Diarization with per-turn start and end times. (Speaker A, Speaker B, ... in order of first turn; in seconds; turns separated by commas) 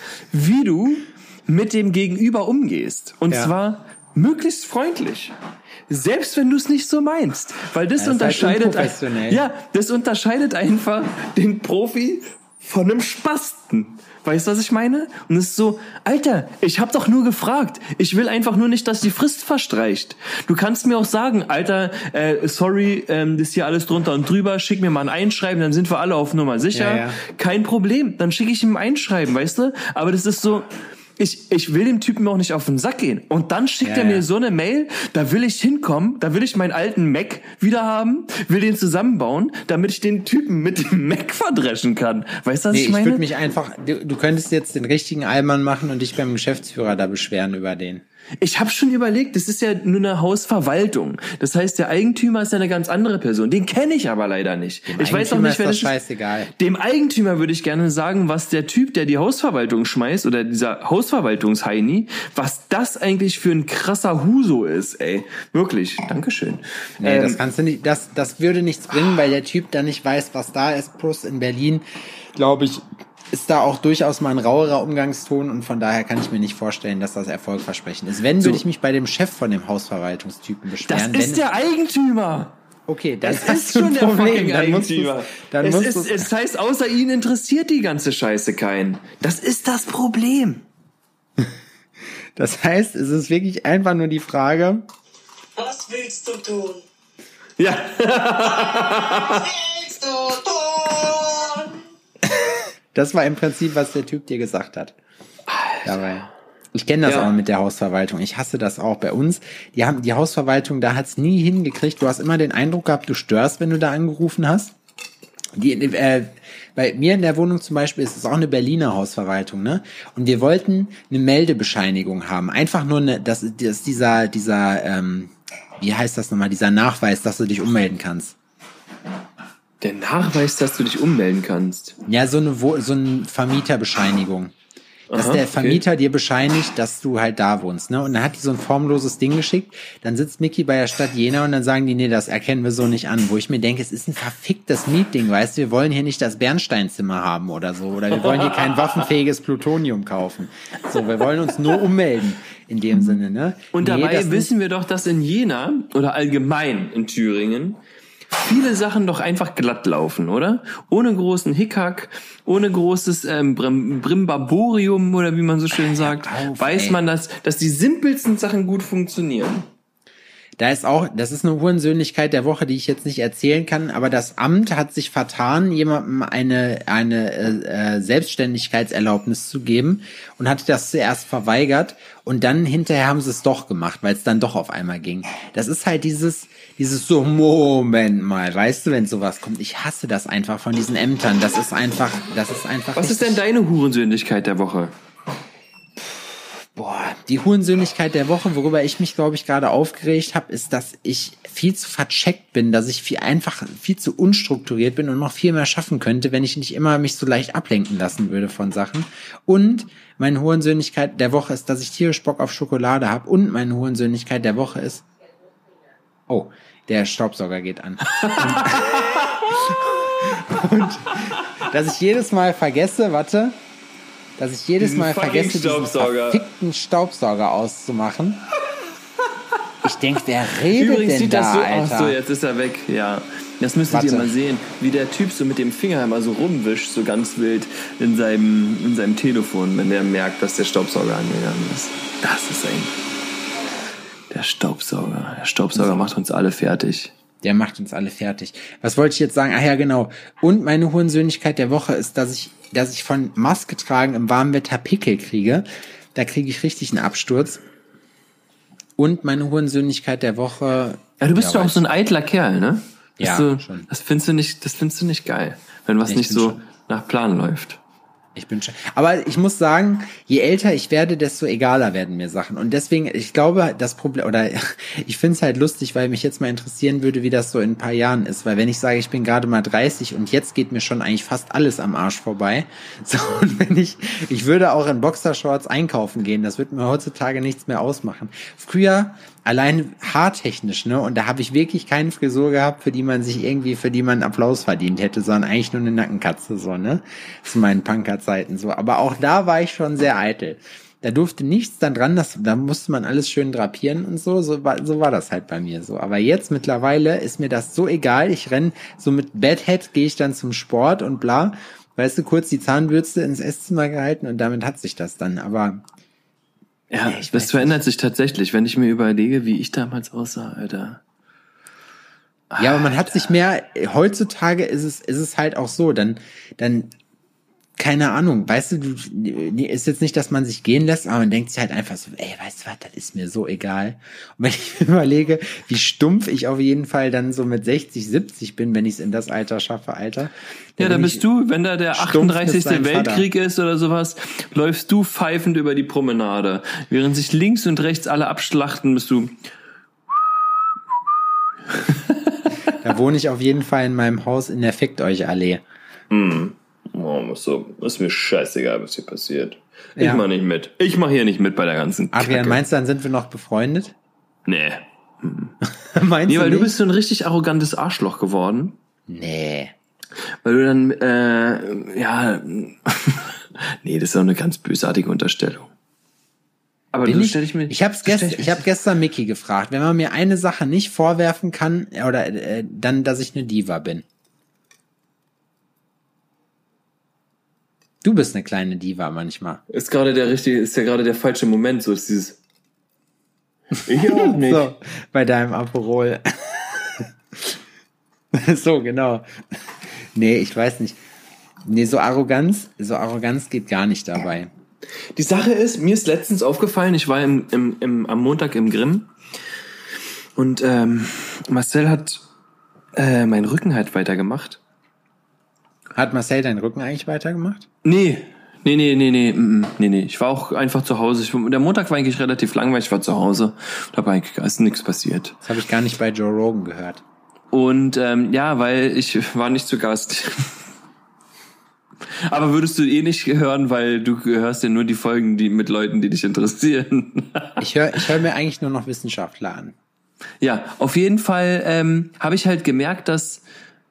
Speaker A: 0.3-5.3, Speaker A: 5.9-43.3, Speaker B: 8.0-9.4, Speaker B: 26.7-27.2, Speaker B: 33.8-34.2, Speaker B: 42.7-48.0, Speaker A: 48.4-55.9, Speaker B: 54.9-56.5, Speaker A: 56.6-67.4, Speaker B: 67.0-81.4, Speaker A: 80.9-82.5, Speaker B: 82.9-86.3, Speaker A: 83.2-90.7, Speaker B: 92.4-94.9, Speaker C: 95.6-96.8, Speaker A: 97.6-99.5, Speaker C: 98.8-101.8, Speaker B: 102.9-105.0, Speaker A: 105.5-106.0, Speaker B: 105.8-114.8, Speaker A: 107.0-107.3, Speaker B: 115.6-128.4, Speaker A: 129.8-132.0, Speaker B: 132.1-134.5, Speaker A: 135.1-135.8, Speaker B: 135.1-154.5, Speaker A: 148.2-149.0, Speaker A: 153.7-157.8, Speaker A: 158.4-169.7, Speaker B: 165.8-167.0, Speaker B: 170.6-193.4, Speaker A: 193.0-194.9, Speaker B: 196.8-215.1, Speaker B: 216.3-223.6, Speaker A: 218.1-220.3, Speaker B: 224.4-228.4, Speaker A: 224.8-226.4, Speaker B: 229.8-232.2, Speaker A: 230.6-243.0, Speaker B: 233.9-234.3, Speaker A: 244.3-247.1, Speaker B: 247.4-257.6, Speaker B: 259.0-262.0, Speaker A: 261.2-267.8, Speaker B: 263.2-263.9, Speaker B: 266.1-266.6, Speaker B: 268.4-315.8, Speaker A: 316.9-321.0, Speaker B: 317.1-317.8, Speaker A: 322.5-322.9, Speaker B: 322.6-326.9, Speaker B: 327.8-341.3, Speaker A: 340.8-349.4, Speaker B: 341.9-343.3, Speaker A: 351.7-352.4, Speaker B: 352.7-355.6, Speaker A: 356.1-362.6, Speaker B: 360.0-360.2, Speaker B: 362.1-363.9, Speaker A: 364.5-365.6, Speaker B: 365.6-366.7, Speaker A: 366.3-368.8, Speaker B: 369.1-369.7, Speaker A: 370.4-375.7, Speaker A: 376.9-378.7, Speaker B: 377.0-384.1, Speaker B: 388.0-389.6, Speaker A: 389.7-392.4, Speaker A: 393.9-394.7, Speaker B: 394.0-397.5, Speaker B: 398.3-399.2, Speaker B: 400.0-401.0, Speaker B: 401.7-404.5, Speaker A: 405.2-409.1, Speaker A: 410.4-412.2, Speaker A: 413.0-414.6, Speaker B: 416.0-417.7, Speaker A: 417.8-425.4, Speaker B: 425.4-427.0, Speaker A: 427.5-430.6, Speaker A: 432.1-437.6, Speaker B: 437.6-439.8, Speaker A: 440.4-443.4